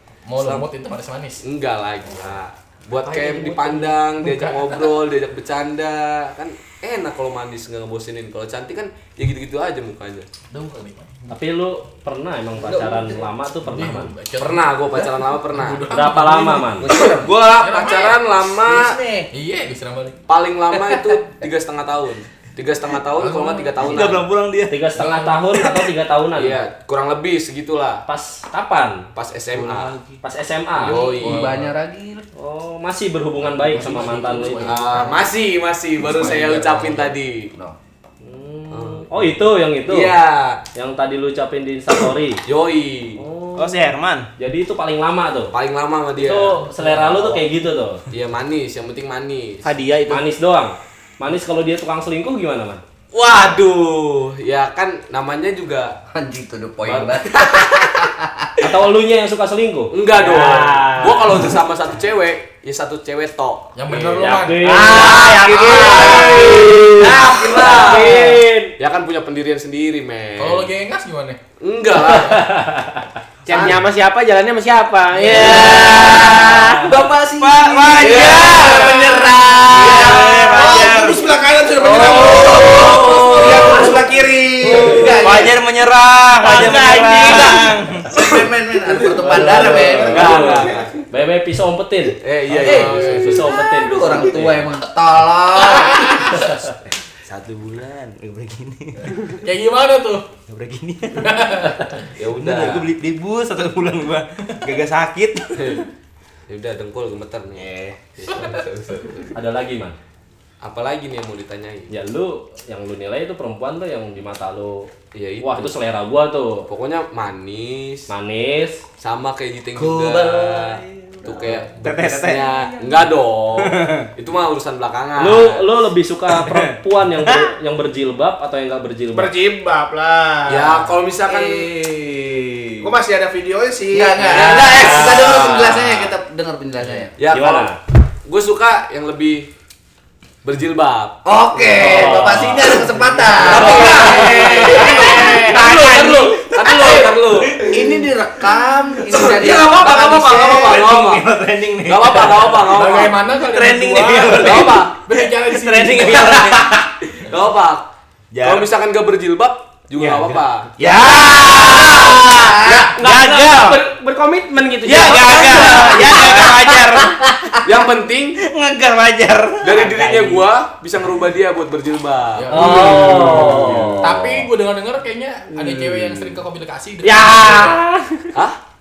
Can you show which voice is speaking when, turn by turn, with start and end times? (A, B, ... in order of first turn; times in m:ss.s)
0:00.2-0:01.4 A
0:00.4-0:00.7 B
0:01.4-0:10.3 B
0:03.0-0:05.0 A
0:10.5-0:11.4 A
0:11.3-0:14.1 C
0:12.6-0:13.3 D
0:13.6-0:17.0 A
0:14.4-0:15.8 B
0:15.9-0:16.9 C
0:16.8-0:19.3 D
0:17.1-0:19.0 B
0:17.6-0:18.1 A
0:19.3-0:20.2 A
0:20.3-0:24.3 B
0:20.7-0:21.2 D
0:23.2-0:24.1 A
0:23.8-0:24.8 E
0:24.7-0:26.6 C
0:25.0-0:25.7 A
0:26.3-0:28.0 B
0:28.1-0:29.0 C
0:29.1-0:30.2 B
0:30.2-0:31.0 C
0:30.8-0:31.6 B
0:30.8-0:32.2 D
0:31.2-0:31.7 A
0:32.4-0:34.7 C
0:33.6-0:35.3 A
0:34.6-0:37.5 B
0:36.0-0:37.8 D
0:38.2-0:40.2 C
0:38.7-0:39.3 B
0:39.8-0:40.6 B
0:40.7-0:42.4 C
0:42.4-0:43.2 B
0:43.2-0:43.8 C
0:43.6-0:44.2 E
0:44.4-0:45.5 C
0:45.5-0:47.4 B
0:46.2-0:48.0 C
0:48.1-0:49.7 B
0:49.6-0:50.2 F
0:50.1-0:52.8 C
0:53.1-0:55.9 B
0:56.1-0:58.5 D
0:56.8-0:58.0 B
0:58.6-0:59.9 C
0:59.9-1:03.7 B
1:00.2-1:01.5 F
1:03.7-1:06.8 A
1:04.2-1:05.3 C
1:04.6-1:08.7 F
1:04.9-1:10.6 B
1:10.4-1:11.4 A
1:11.6-1:12.5 B
1:12.1-1:13.1 C
1:13.4-1:17.0 F
1:15.2-1:16.6 E
1:15.3-1:21.0 D
1:17.4-1:21.4 E
1:18.0-1:20.5 B
1:19.8-1:25.2 G
1:21.8-1:24.0 D
1:21.9-1:23.2 B
1:22.8-1:23.0 F
1:24.6-1:25.6 D
1:25.0-1:28.4 E
1:26.4-1:27.6 F
1:26.6-1:27.4 D
1:28.1-1:30.5 D
1:28.9-1:30.9 B
1:29.2-1:30.1 E
1:29.2-1:30.9 G
1:30.1-1:30.6 C
1:31.1-1:32.2 C
1:32.2-1:33.4 B
1:32.5-1:33.5 A
1:32.5-1:36.4 D
1:33.2-1:34.7 C
1:35.7-1:36.5 A
1:37.2-1:39.4 E
1:39.4-1:40.2 A
1:40.5-1:41.5 E
1:41.2-1:41.9 A
1:42.2-1:42.9 B
1:42.3-1:45.8 E
1:45.6-1:45.8 B
1:46.5-1:49.3 B
1:49.3-1:50.0 C
1:50.6-1:51.9 B
1:51.9-1:56.7 C
1:55.1-1:55.7 B
1:56.7-1:58.1 B
1:58.1-1:58.8 C
1:59.0-2:05.6 B
1:59.8-2:01.7 D
2:01.8-2:02.7 E
2:02.3-2:02.9 D
2:03.6-2:04.1 E
2:05.2-2:09.3 C
2:07.2-2:07.5 E
2:09.1-2:10.7 G
2:10.5-2:12.9 B
2:11.3-2:11.6 D
2:12.8-2:14.5 G
2:13.9-2:17.1 D
2:14.2-2:15.3 B
2:14.6-2:16.1 C
2:17.2-2:17.7 B
2:17.3-2:17.8 C
2:18.2-2:19.5 B
2:20.4-2:22.3 B
2:21.2-2:25.5 D
2:21.7-2:22.8 C
2:23.4-2:27.7 B
2:23.6-2:26.5 F
2:26.5-2:28.1 E
2:27.7-2:30.9 D
2:29.1-2:29.4 E
2:29.1-2:31.2 B
2:30.3-2:36.7 E
2:31.8-2:33.2 B
2:32.7-2:36.5 A
2:34.3-2:35.0 B
2:36.0-2:36.4 B
2:37.3-2:37.9 B
2:38.3-2:38.7 E
2:38.4-2:40.7 B
2:40.0-2:43.8 E
2:40.8-2:47.1 F
2:41.5-2:42.9 D
2:44.8-2:47.1 E
2:45.7-2:46.2 D
2:47.6-2:48.4 B
2:48.4-2:50.4 E
2:49.6-2:54.0 B
2:52.4-2:57.8 A
2:52.5-2:54.4 C
2:55.5-2:56.2 F
2:57.0-2:58.3 F